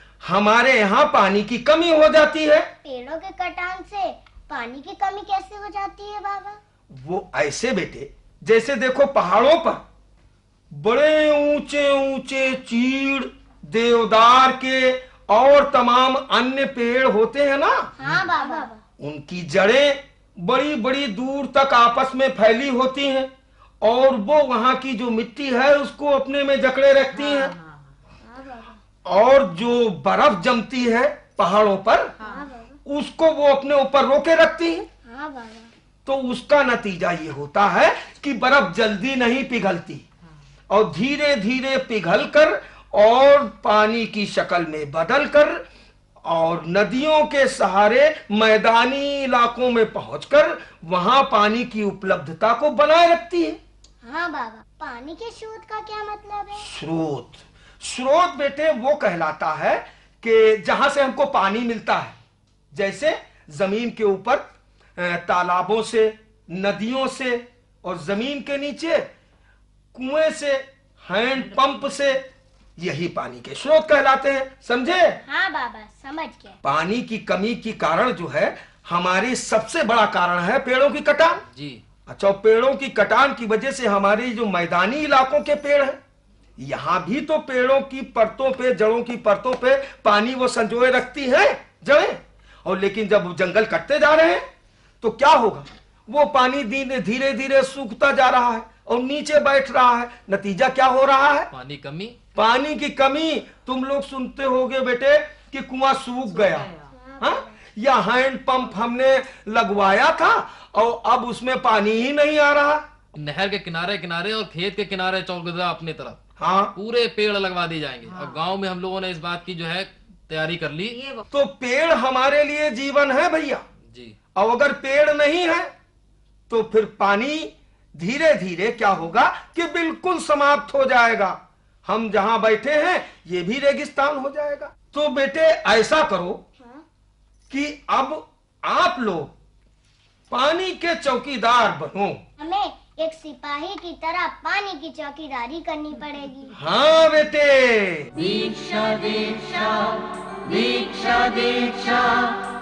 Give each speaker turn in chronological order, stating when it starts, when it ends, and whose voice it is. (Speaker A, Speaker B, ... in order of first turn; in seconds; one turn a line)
Speaker A: 0.2-2.7
Speaker B: 2.8-6.6
Speaker A: 6.9-9.8
Speaker A: 10.7-17.9
Speaker B: 18.0-18.7
Speaker C: 18.4-18.8
Speaker A: 19.0-23.3
Speaker A: 23.8-27.6
Speaker D: 27.2-27.5
Speaker C: 28.2-28.8
Speaker A: 29.1-32.1
Speaker C: 32.2-32.8
Speaker A: 32.9-34.9
Speaker B: 35.0-35.7
Speaker A: 36.1-40.0
Speaker A: 40.7-45.6
Speaker A: 46.2-53.6
Speaker B: 54.0-56.7
Speaker A: 56.6-62.1
Speaker A: 62.7-69.0
Speaker A: 69.9-72.2
Speaker A: 72.8-75.2
Speaker B: 75.2-76.6
Speaker A: 76.6-81.4
Speaker E: 81.5-81.8
Speaker A: 82.1-86.0
Speaker A: 86.6-94.4
Speaker A: 95.0-101.5
Speaker E: 101.5-102.2
Speaker A: 102.3-112.8
Speaker C: 106.9-107.4
Speaker E: 113.2-116.2
Speaker A: 116.4-116.8
Speaker E: 116.8-121.0
Speaker D: 118.1-118.3
Speaker A: 121.3-123.6
Speaker E: 123.9-124.2
Speaker A: 124.3-125.7
Speaker A: 126.5-136.4
Speaker A: 137.5-139.3
Speaker A: 140.3-142.2
Speaker B: 142.4-146.6
Speaker A: 146.6-148.1
Speaker D: 148.2-152.3